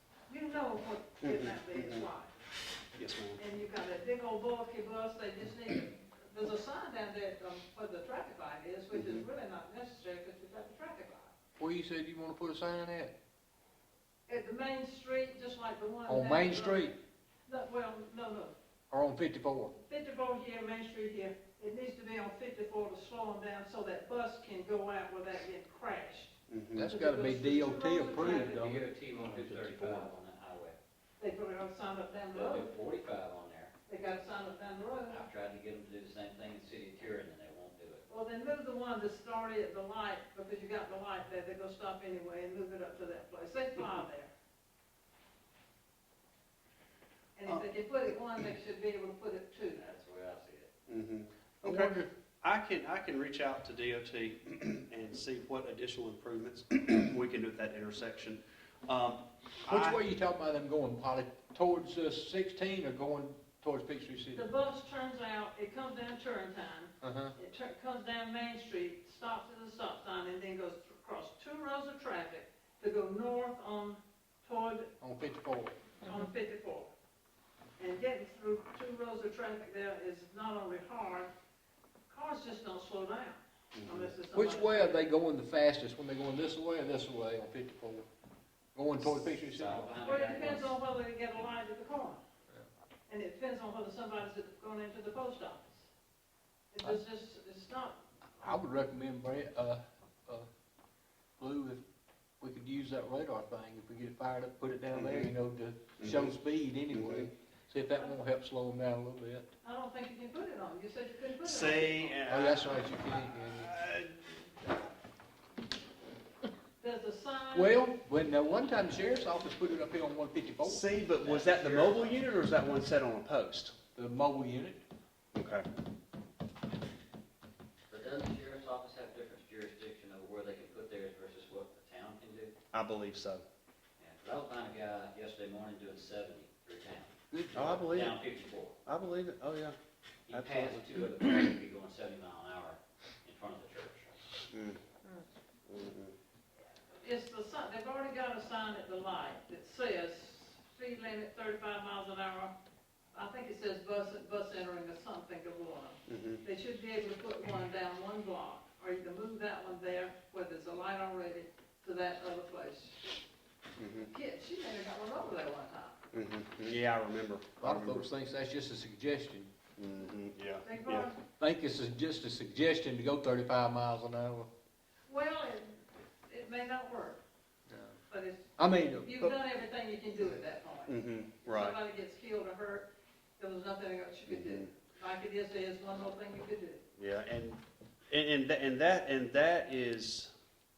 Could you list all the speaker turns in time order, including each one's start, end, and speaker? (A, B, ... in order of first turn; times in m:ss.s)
0:00.3-0:02.3 A
0:01.2-0:02.0 B
0:02.9-0:03.4 B
0:03.4-0:11.3 A
0:08.9-0:09.2 B
0:11.6-0:13.1 C
0:14.3-0:16.9 A
0:16.1-0:16.9 C
0:17.5-0:18.5 A
0:18.9-0:19.7 C
0:19.8-0:28.6 A
0:26.5-0:26.9 B
0:26.8-0:30.1 C
0:28.2-0:30.8 D
0:31.2-0:32.7 A
0:32.3-0:33.7 D
0:33.9-0:35.2 A
0:35.1-0:38.0 D
0:38.1-0:44.3 A
0:47.4-0:49.8 A
0:49.7-0:50.7 D
0:50.9-1:00.0 B
0:51.6-0:52.1 C
0:59.6-1:04.4 C
1:04.3-1:14.9 A
1:07.0-1:07.3 C
1:15.0-1:15.9 C
1:16.0-1:16.9 A
1:17.8-1:21.3 A
1:22.1-1:25.0 A
1:23.7-1:24.1 B
1:24.3-1:28.1 C
1:28.7-1:29.9 C
1:29.0-1:30.7 D
1:30.0-1:32.2 A
1:33.1-1:35.8 A
1:36.7-1:38.0 A
1:38.4-1:40.5 C
1:41.4-1:41.8 C
1:42.4-1:49.5 C
1:44.9-1:45.3 B
1:46.0-1:46.4 B
1:46.9-1:47.3 B
1:49.6-1:52.2 A
1:51.4-1:54.8 B
1:52.3-1:53.8 C
1:56.8-1:57.8 A
1:57.5-2:00.8 C
2:00.6-2:03.8 B
2:01.2-2:02.2 D
2:04.0-2:04.8 C
2:05.3-2:05.6 B
2:07.9-2:12.5 D
2:12.7-2:13.4 B
2:14.0-2:18.8 D
2:17.3-2:17.8 C
2:17.5-2:18.2 B
2:18.8-2:19.8 B
2:20.3-2:24.2 D
2:20.3-2:20.9 B
2:24.5-2:24.8 B
2:25.6-2:26.1 B
2:27.0-2:32.5 A
2:33.1-2:43.0 A
2:36.1-2:36.4 B
2:43.8-2:44.1 B
2:44.1-2:46.0 A
2:46.1-2:48.0 B
2:47.6-2:49.5 C
2:49.8-2:51.1 B
2:50.6-2:51.2 A
2:51.4-2:54.5 C
2:55.1-2:57.2 A
2:57.7-2:57.9 C
2:58.1-3:06.8 A
2:58.6-2:59.3 C
3:00.9-3:01.8 B
3:04.3-3:04.7 B
3:07.0-3:10.3 B